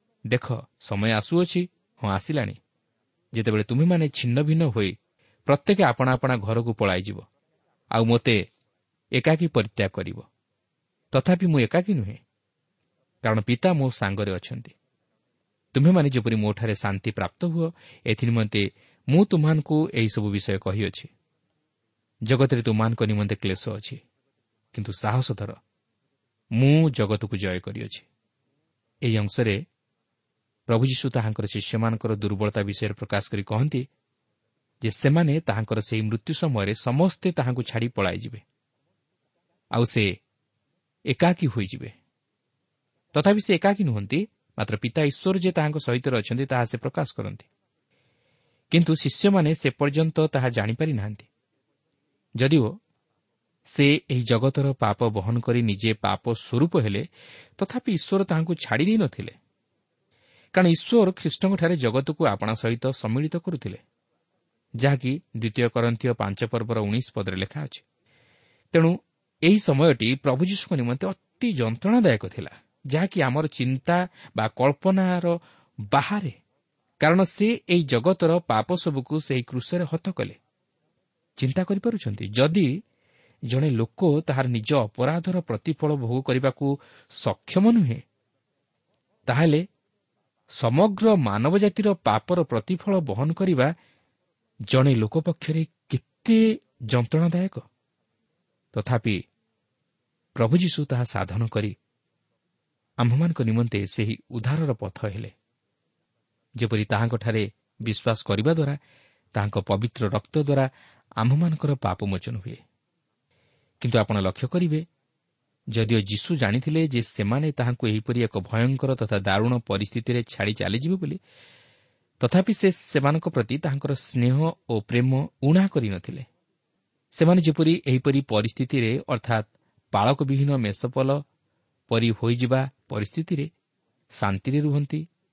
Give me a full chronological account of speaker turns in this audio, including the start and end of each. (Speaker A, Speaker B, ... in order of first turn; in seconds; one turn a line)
Speaker A: 0.3-2.6
Speaker A: 3.3-5.0
Speaker A: 5.5-7.2
Speaker A: 7.9-8.5
Speaker A: 9.1-10.3
Speaker A: 11.1-12.2
Speaker A: 13.2-14.7
Speaker A: 15.7-21.1
Speaker A: 22.2-24.0
Speaker A: 24.7-25.6
Speaker A: 26.6-28.1
Speaker A: 29.0-29.6
Speaker A: 30.7-33.9
Speaker A: 34.8-38.4
Speaker A: 39.8-40.1
Speaker A: 41.1-41.9
Speaker A: 43.1-47.5
Speaker A: 48.7-51.3
Speaker A: 52.4-52.8
Speaker A: 53.7-57.1
Speaker A: 57.6-59.4
Speaker A: 60.5-63.8
Speaker A: 64.8-67.8
Speaker A: 68.7-75.4
Speaker A: 75.9-76.4
Speaker A: 77.0-80.4
Speaker A: 81.4-82.7
Speaker A: 83.5-88.0
Speaker A: 89.3-89.7
Speaker A: 90.5-93.7
Speaker A: 94.7-97.6
Speaker A: 98.7-99.2
Speaker A: 100.4-101.8
Speaker A: 103.0-105.3
Speaker A: 106.6-108.8
Speaker A: 109.3-110.7
Speaker A: 111.2-112.6
Speaker A: 113.8-114.9
Speaker A: 115.7-121.2
Speaker A: 122.2-126.3
Speaker A: 127.1-131.2
Speaker A: 131.9-133.5
Speaker A: 134.1-135.1